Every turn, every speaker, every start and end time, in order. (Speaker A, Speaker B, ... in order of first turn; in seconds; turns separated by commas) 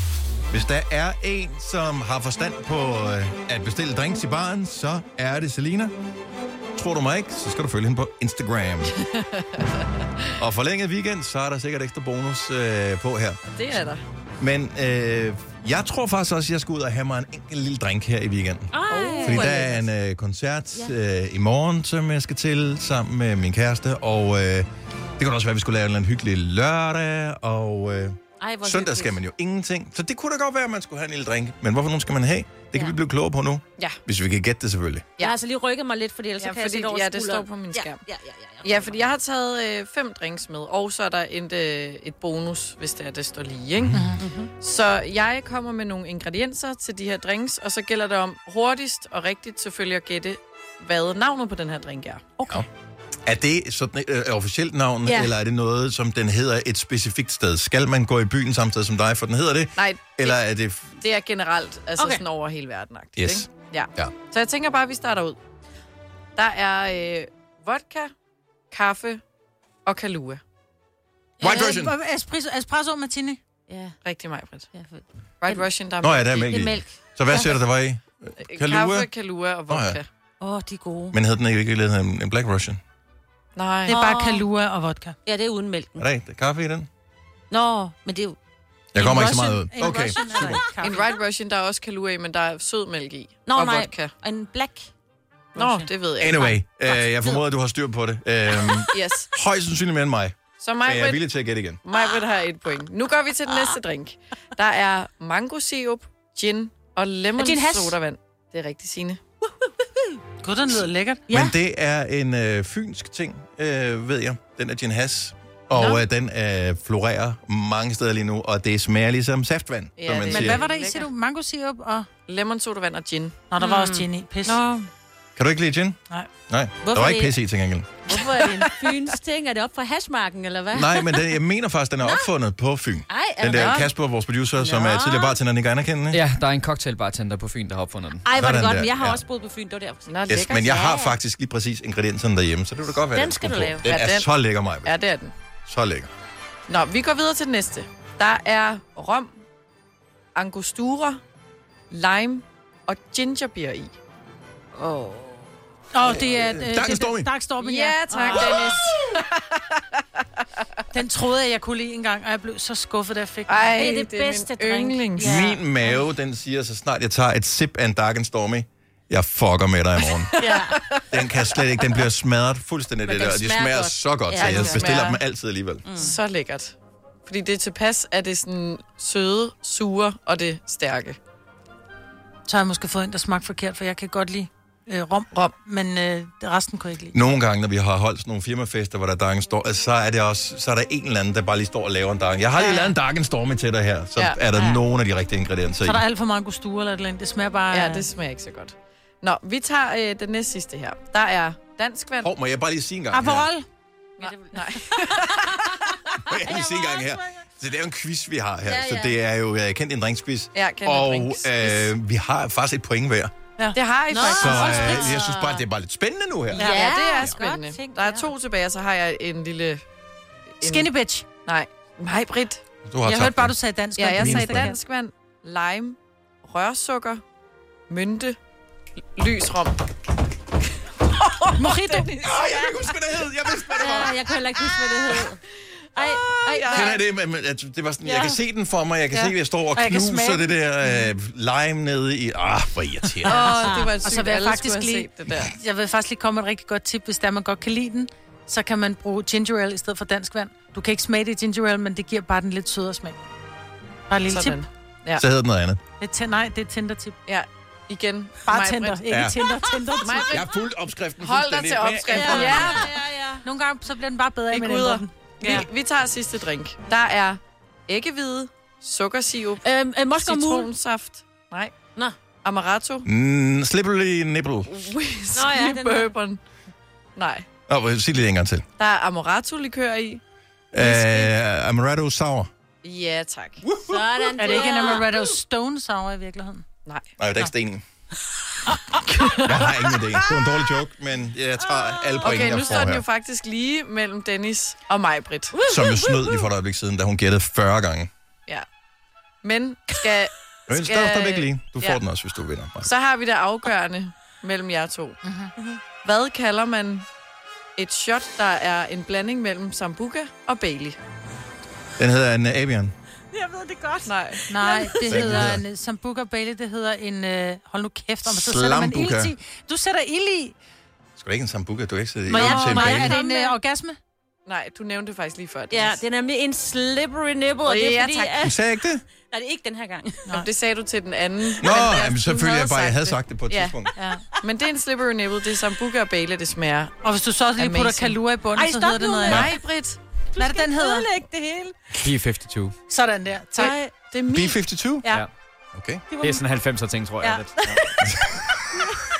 Speaker A: 0.5-5.9, Speaker A: 6.8-9.0, Speaker B: 9.1-9.7, Speaker A: 10.4-13.4, Speaker B: 13.6-14.0, Speaker A: 14.4-35.1, Speaker C: 18.7-19.6, Speaker B: 18.9-19.9, Speaker C: 28.4-29.2, Speaker C: 35.2-39.1, Speaker B: 36.4-38.0, Speaker B: 38.6-44.0, Speaker D: 43.9-44.2, Speaker C: 44.1-44.5, Speaker B: 44.6-52.4, Speaker A: 53.2-61.0, Speaker C: 55.0-55.3, Speaker B: 59.8-60.4, Speaker B: 61.0-65.4, Speaker C: 62.0-62.2, Speaker A: 63.2-64.1, Speaker B: 66.3-68.1, Speaker B: 68.7-69.2, Speaker B: 69.8-70.4, Speaker A: 71.4-72.0, Speaker D: 71.4-73.4, Speaker B: 71.4-71.7, Speaker C: 73.7-73.9, Speaker B: 74.0-74.7, Speaker C: 74.7-75.6, Speaker B: 75.4-76.4, Speaker A: 76.0-79.1, Speaker C: 76.3-77.6, Speaker B: 78.4-80.1, Speaker A: 79.7-80.0, Speaker C: 80.4-81.2, Speaker A: 81.1-82.8, Speaker B: 83.5-84.0, Speaker C: 83.9-84.5, Speaker D: 83.9-85.2, Speaker C: 85.2-86.0, Speaker A: 86.0-86.9, Speaker C: 87.5-88.4, Speaker A: 88.9-90.6, Speaker D: 89.0-91.1, Speaker B: 90.8-94.1, Speaker C: 93.4-94.9, Speaker D: 95.5-95.9, Speaker B: 95.5-96.5, Speaker A: 96.2-101.8, Speaker C: 96.9-97.4, Speaker B: 98.9-99.3, Speaker B: 100.6-101.2, Speaker B: 101.8-109.2, Speaker C: 103.5-103.7, Speaker D: 107.4-108.0, Speaker D: 110.4-111.2, Speaker A: 111.3-120.6, Speaker B: 115.7-116.0, Speaker B: 120.0-121.1, Speaker D: 120.3-122.1, Speaker B: 122.3-123.5, Speaker D: 123.5-124.6, Speaker C: 123.6-124.0, Speaker B: 124.4-124.9, Speaker A: 125.3-128.0, Speaker C: 126.8-127.4, Speaker D: 128.1-128.7, Speaker C: 128.1-131.3, Speaker A: 130.7-136.3, Speaker C: 132.0-132.3, Speaker C: 133.1-133.9, Speaker B: 133.5-133.9, Speaker C: 134.6-135.4, Speaker E: 136.1-138.2, Speaker C: 138.2-141.2, Speaker A: 138.3-139.2, Speaker B: 140.1-140.6, Speaker A: 140.3-144.9, Speaker C: 143.1-143.9, Speaker B: 143.8-144.3, Speaker B: 144.8-145.3, Speaker A: 145.7-146.1, Speaker B: 146.7-149.3, Speaker B: 150.3-151.2, Speaker B: 151.9-153.9, Speaker C: 154.8-155.4, Speaker D: 155.9-158.8, Speaker A: 156.0-157.3, Speaker B: 157.6-159.8, Speaker C: 158.2-158.6, Speaker D: 160.9-163.9, Speaker B: 163.5-165.5, Speaker C: 163.8-166.0, Speaker A: 165.2-170.4, Speaker B: 170.3-171.9, Speaker C: 170.3-170.9, Speaker A: 171.1-175.8, Speaker C: 173.0-175.1, Speaker B: 174.3-175.2, Speaker C: 175.8-176.1, Speaker B: 175.9-176.8, Speaker B: 177.3-181.2, Speaker D: 182.5-187.2, Speaker A: 187.1-196.0, Speaker B: 192.5-192.9, Speaker B: 194.2-194.4, Speaker D: 194.5-194.8, Speaker D: 195.8-198.1, Speaker B: 197.7-202.3, Speaker A: 202.2-203.5, Speaker D: 203.1-203.7, Speaker B: 204.2-205.7, Speaker C: 204.2-207.2, Speaker A: 206.2-213.3, Speaker C: 208.6-209.2, Speaker B: 210.5-211.9, Speaker D: 213.6-215.2, Speaker B: 213.7-215.0, Speaker C: 214.1-215.7, Speaker A: 214.2-217.3, Speaker B: 216.5-219.8, Speaker D: 216.5-218.3, Speaker C: 216.7-217.2, Speaker B: 220.6-220.9, Speaker D: 220.6-221.3, Speaker B: 221.4-222.6, Speaker A: 222.8-223.6, Speaker D: 223.0-224.8, Speaker B: 223.9-227.2, Speaker A: 224.1-224.7, Speaker B: 227.9-228.4, Speaker B: 229.2-229.8, Speaker B: 231.0-232.9, Speaker D: 231.6-232.2, Speaker A: 232.2-234.6, Speaker C: 233.8-237.0, Speaker B: 236.0-237.0, Speaker A: 236.6-243.8, Speaker D: 239.7-240.8, Speaker D: 243.2-253.2, Speaker B: 243.3-245.5, Speaker D: 254.1-254.6, Speaker B: 254.2-255.2, Speaker A: 255.2-255.8, Speaker D: 256.0-257.2, Speaker B: 257.3-259.1, Speaker D: 258.4-260.5, Speaker A: 259.1-259.4, Speaker B: 260.0-260.5, Speaker A: 260.3-262.9, Speaker B: 261.2-263.0, Speaker C: 262.1-263.4, Speaker D: 263.4-265.7, Speaker B: 264.5-271.8, Speaker C: 269.6-270.7, Speaker B: 272.4-273.1, Speaker A: 273.1-274.9, Speaker B: 274.7-276.4, Speaker C: 275.3-276.1, Speaker B: 277.2-277.5, Speaker A: 277.7-278.6, Speaker B: 278.8-280.2, Speaker A: 280.7-282.5, Speaker B: 280.8-281.3, Speaker B: 282.8-283.6, Speaker A: 283.6-284.1, Speaker C: 283.8-285.1, Speaker D: 284.4-286.6, Speaker B: 284.5-285.0, Speaker B: 286.9-287.1, Speaker A: 287.2-287.8, Speaker D: 288.7-290.4, Speaker A: 289.4-293.1, Speaker C: 292.0-292.9, Speaker B: 292.2-295.6, Speaker C: 295.6-296.4, Speaker A: 295.7-298.1, Speaker B: 299.4-302.0, Speaker A: 300.7-302.9, Speaker B: 302.8-305.2, Speaker D: 305.2-305.5, Speaker B: 306.0-307.1, Speaker B: 307.8-311.0, Speaker A: 312.0-312.9, Speaker C: 313.3-315.3, Speaker B: 314.1-314.5, Speaker D: 314.5-320.6, Speaker A: 315.1-315.6, Speaker A: 318.3-319.3, Speaker A: 321.2-323.1, Speaker C: 322.3-323.6, Speaker D: 322.3-324.0, Speaker B: 324.5-326.0, Speaker C: 325.7-328.6, Speaker B: 327.6-328.5, Speaker A: 328.4-329.0, Speaker C: 329.3-330.3, Speaker B: 330.3-333.8, Speaker A: 331.6-333.9, Speaker D: 334.0-334.2, Speaker B: 334.4-337.0, Speaker D: 337.0-339.5, Speaker B: 337.5-338.2, Speaker C: 338.5-339.6, Speaker B: 339.3-340.0, Speaker C: 340.3-341.8, Speaker D: 340.4-341.1, Speaker E: 342.0-342.8, Speaker D: 342.9-343.9, Speaker C: 343.6-344.2, Speaker B: 343.6-344.5, Speaker A: 344.3-345.1, Speaker A: 345.7-346.1, Speaker C: 346.1-346.4, Speaker E: 346.2-347.8, Speaker C: 347.6-347.9, Speaker A: 348.1-348.8